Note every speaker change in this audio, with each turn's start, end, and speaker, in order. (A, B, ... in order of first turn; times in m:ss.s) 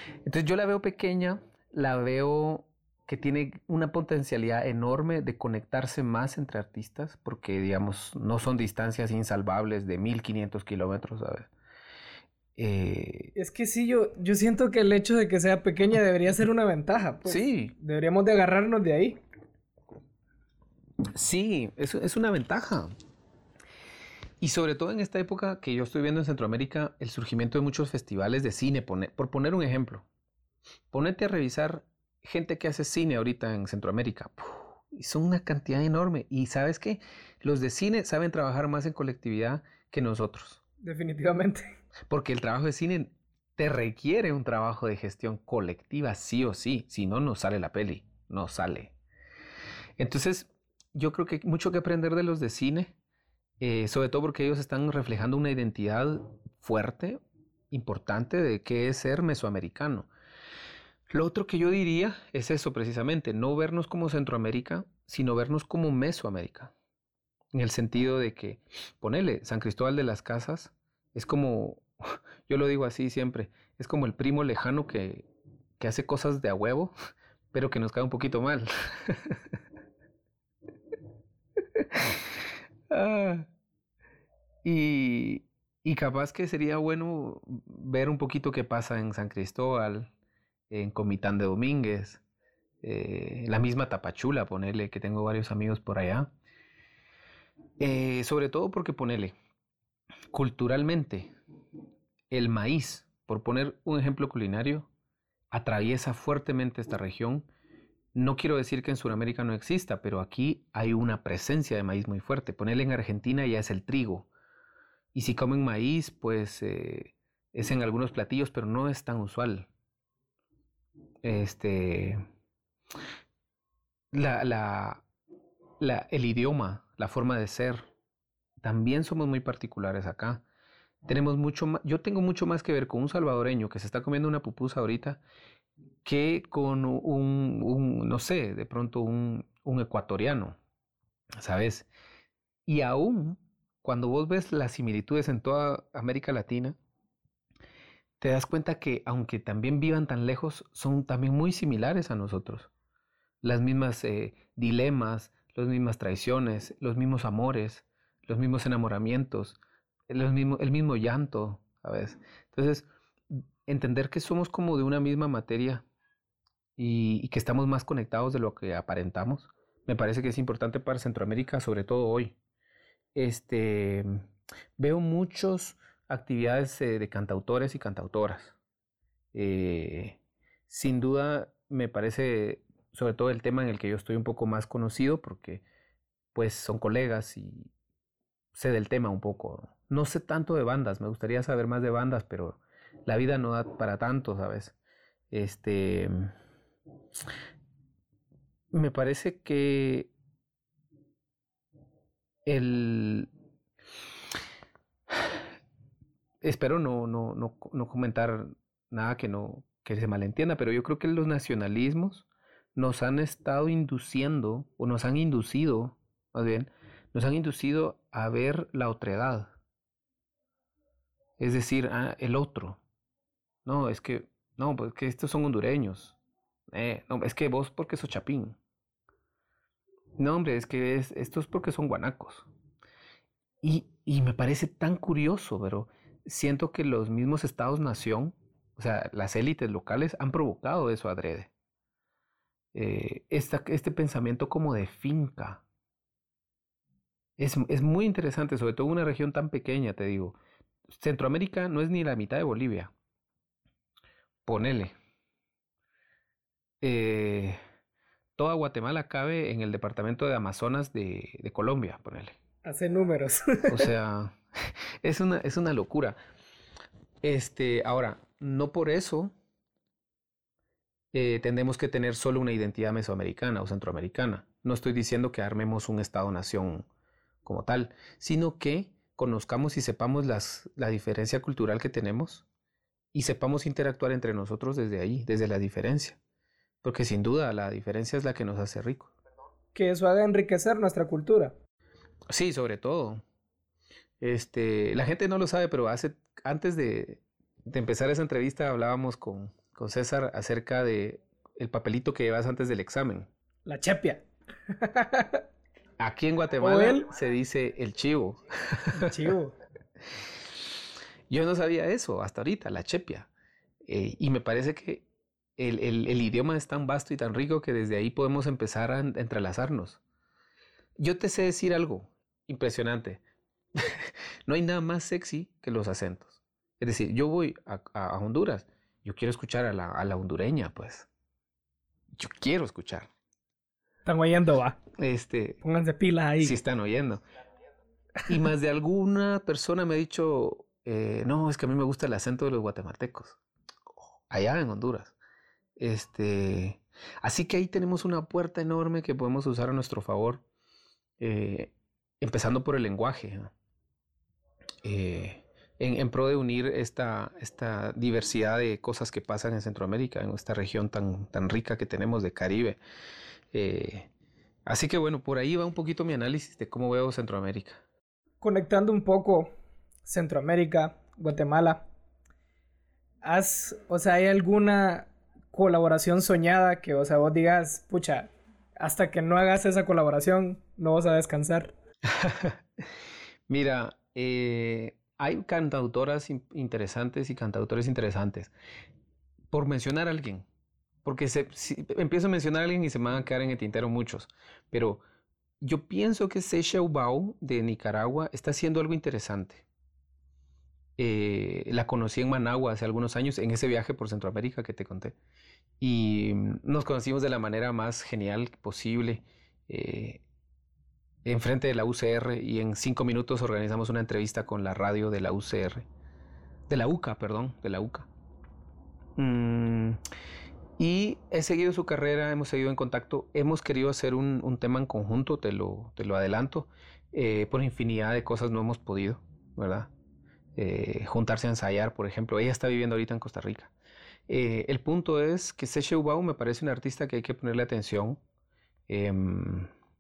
0:00.2-0:11.5 A
0:12.6-0:13.3 A
0:13.4-0:19.2 B
0:17.3-0:17.7 A
0:21.1-0:22.9 A
0:24.4-0:30.0 A
0:30.9-0:40.6 A
0:40.8-0:41.7 B
0:42.1-0:48.9 A
0:50.0-0:52.9 A
0:53.6-1:00.1 A
1:01.1-1:06.7 A
1:07.5-1:11.8 A
1:12.5-1:15.2 A
1:15.8-1:16.9 A
1:17.5-1:19.4 A
1:21.8-1:22.2 A
1:22.9-1:23.5 A
1:24.6-1:30.1 A
1:30.7-1:32.2 A
1:32.8-1:36.3 A
1:37.8-1:39.3 A
1:40.3-1:41.3 A
1:42.3-1:44.9 A
1:45.5-1:47.5 A
1:48.2-1:54.3 A
1:55.1-1:59.7 A
2:01.2-2:02.2 A
2:04.1-2:05.0 A
2:05.8-2:07.9 A
2:08.6-2:10.4 A
2:11.1-2:15.2 A
2:16.0-2:20.6 A
2:21.4-2:21.9 A
2:22.7-2:26.8 A
2:28.2-2:32.7 A
2:33.4-2:39.6 A
2:40.1-2:45.8 A
2:46.8-2:52.4 A
2:53.2-2:58.6 A
2:59.3-3:00.2 A
3:00.7-3:05.6 A
3:06.3-3:07.7 A
3:08.5-3:14.8 A
3:15.3-3:16.3 A
3:18.7-3:20.1 A
3:22.4-3:23.3 A
3:26.4-3:39.5 A
3:41.4-3:42.8 A
3:43.6-3:46.2 A
3:46.7-3:48.6 A
3:50.2-3:52.5 A
3:53.6-4:01.5 A
4:02.7-4:05.6 A
4:07.4-4:10.4 A
4:10.9-4:12.9 A
4:14.4-4:14.9 A
4:16.8-4:17.6 A
4:18.4-4:22.4 A
4:22.6-4:23.9 B
4:23.7-4:24.4 A
4:25.0-4:26.2 A
4:27.2-4:29.3 A
4:31.1-4:36.9 A
4:37.4-4:42.4 A
4:43.1-4:46.2 A
4:46.8-4:49.1 A
4:49.7-4:51.6 B
4:52.3-4:53.2 A
4:54.2-5:03.3 A
5:03.6-5:05.4 B
5:06.0-5:09.3 A
5:06.6-5:07.1 B
5:08.9-5:09.5 B
5:11.3-5:13.3 A
5:13.8-5:15.0 A
5:15.6-5:20.0 A
5:21.0-5:23.2 A
5:23.8-5:31.1 A
5:32.2-5:33.1 A
5:34.0-5:34.8 B
5:35.0-5:35.6 A
5:35.6-5:36.6 B
5:36.4-5:37.2 A
5:38.3-5:43.4 A
5:44.3-5:45.2 A
5:45.8-5:50.4 A
5:51.2-5:53.5 A
5:54.8-6:02.8 A
6:03.5-6:04.1 A
6:04.7-6:07.8 A
6:08.4-6:09.5 B
6:10.0-6:11.9 B
6:13.2-6:21.7 B
6:22.1-6:22.6 A
6:23.5-6:28.5 A
6:29.5-6:30.5 A
6:31.0-6:35.0 A
6:35.6-6:39.6 A
6:41.0-6:45.2 A
6:45.8-6:50.2 A
6:51.2-6:55.8 A
6:56.7-6:58.1 A
6:59.2-7:00.0 A
7:00.8-7:09.9 A
7:10.6-7:13.7 A
7:14.3-7:18.2 A
7:18.9-7:19.7 A